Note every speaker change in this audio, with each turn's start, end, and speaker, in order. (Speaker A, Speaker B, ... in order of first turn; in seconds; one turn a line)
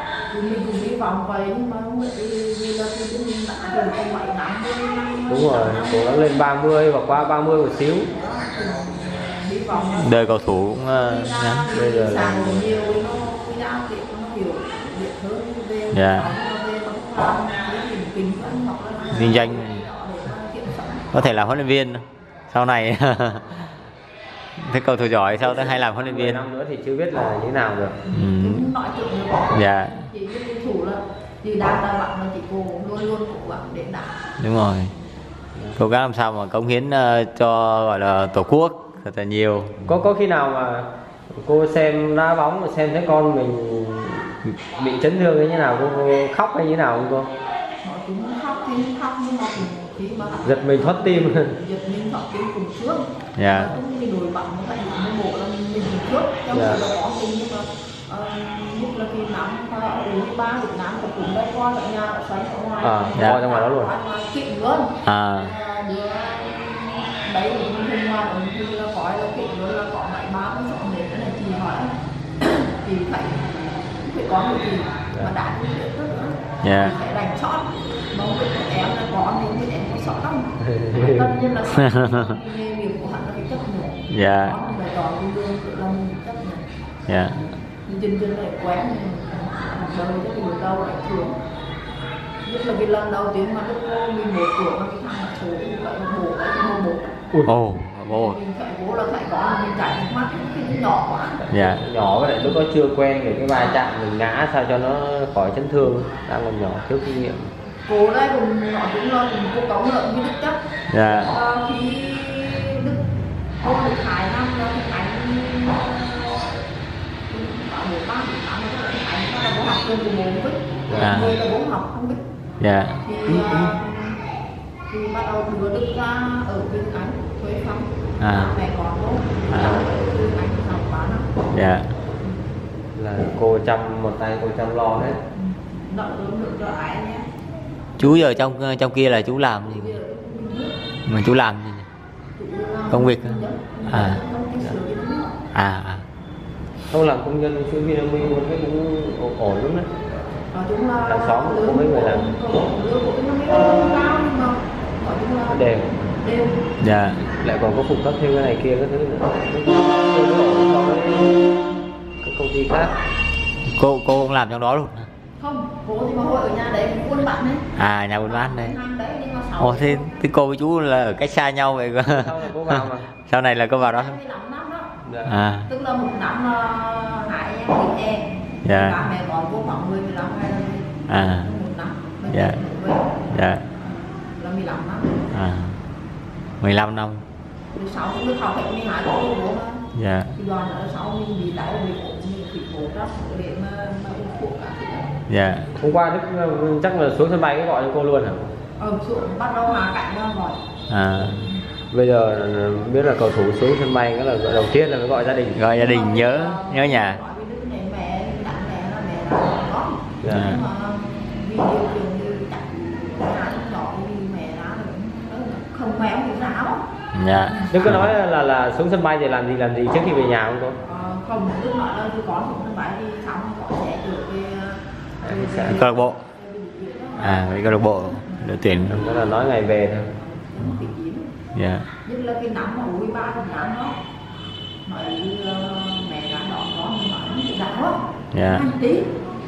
Speaker A: 0.3-6.2
Speaker B: 5.3-8.1
Speaker A: 8.1-10.1
Speaker C: 10.0-11.7
Speaker A: 10.9-21.2
Speaker B: 11.7-12.7
Speaker C: 15.9-16.3
Speaker C: 19.1-19.8
Speaker C: 21.1-23.7
Speaker C: 24.6-26.4
Speaker B: 25.3-28.0
Speaker C: 28.1-28.6
Speaker A: 28.1-34.2
Speaker C: 29.5-30.0
Speaker C: 34.4-34.9
Speaker C: 35.8-39.8
Speaker B: 39.9-47.3
Speaker A: 47.8-86.7
Speaker B: 50.5-51.5
Speaker C: 53.4-53.7
Speaker B: 56.5-56.8
Speaker B: 62.8-63.9
Speaker C: 65.0-65.5
Speaker C: 76.6-76.9
Speaker B: 80.6-81.3
Speaker C: 81.8-82.2
Speaker C: 84.1-84.6
Speaker C: 87.1-87.4
Speaker A: 87.9-91.4
Speaker A: 92.5-97.2
Speaker C: 97.5-98.4
Speaker A: 98.1-101.4
Speaker B: 101.4-107.5
Speaker C: 101.5-101.8
Speaker A: 107.9-113.0
Speaker C: 110.9-111.3
Speaker A: 113.6-116.6
Speaker A: 117.3-122.2
Speaker B: 120.9-121.2
Speaker C: 121.0-121.3
Speaker C: 122.6-123.7
Speaker A: 123.0-124.2
Speaker A: 124.9-131.3
Speaker C: 128.2-128.6
Speaker C: 129.5-129.8
Speaker C: 131.5-131.9
Speaker B: 133.0-135.2
Speaker A: 135.3-137.3
Speaker C: 138.0-140.0
Speaker A: 139.7-140.7
Speaker C: 141.1-141.9
Speaker A: 142.4-145.4
Speaker C: 142.9-144.2
Speaker C: 145.5-146.1
Speaker B: 146.9-149.9
Speaker A: 150.5-156.7
Speaker B: 151.1-152.3
Speaker B: 155.5-155.9
Speaker C: 156.8-157.2
Speaker B: 157.3-161.4
Speaker B: 162.2-162.9
Speaker C: 163.7-165.1
Speaker A: 165.4-167.7
Speaker C: 167.8-168.8
Speaker A: 168.2-170.1
Speaker C: 169.6-174.2
Speaker B: 172.1-173.1
Speaker A: 173.8-174.9
Speaker B: 175.0-175.4
Speaker C: 175.2-175.7
Speaker A: 175.7-185.3
Speaker C: 178.7-179.0
Speaker C: 181.1-181.5
Speaker C: 182.3-182.6
Speaker C: 183.3-183.6
Speaker C: 185.3-185.8
Speaker C: 186.6-187.2
Speaker A: 187.8-189.8
Speaker C: 189.9-190.3
Speaker A: 190.4-195.1
Speaker C: 195.3-195.7
Speaker B: 195.8-198.5
Speaker A: 198.8-200.6
Speaker C: 200.9-201.5
Speaker A: 201.2-201.6
Speaker B: 201.9-205.6
Speaker C: 205.6-207.2
Speaker A: 205.8-216.8
Speaker B: 210.2-210.5
Speaker C: 210.3-210.6
Speaker C: 217.1-218.1
Speaker A: 217.4-217.7
Speaker B: 217.7-220.8
Speaker A: 220.8-228.4
Speaker B: 225.2-225.8
Speaker C: 225.7-226.2
Speaker C: 227.2-229.0
Speaker B: 228.9-230.1
Speaker A: 230.2-231.3
Speaker C: 231.5-231.9
Speaker A: 232.1-234.0
Speaker A: 234.9-239.1
Speaker C: 238.3-238.7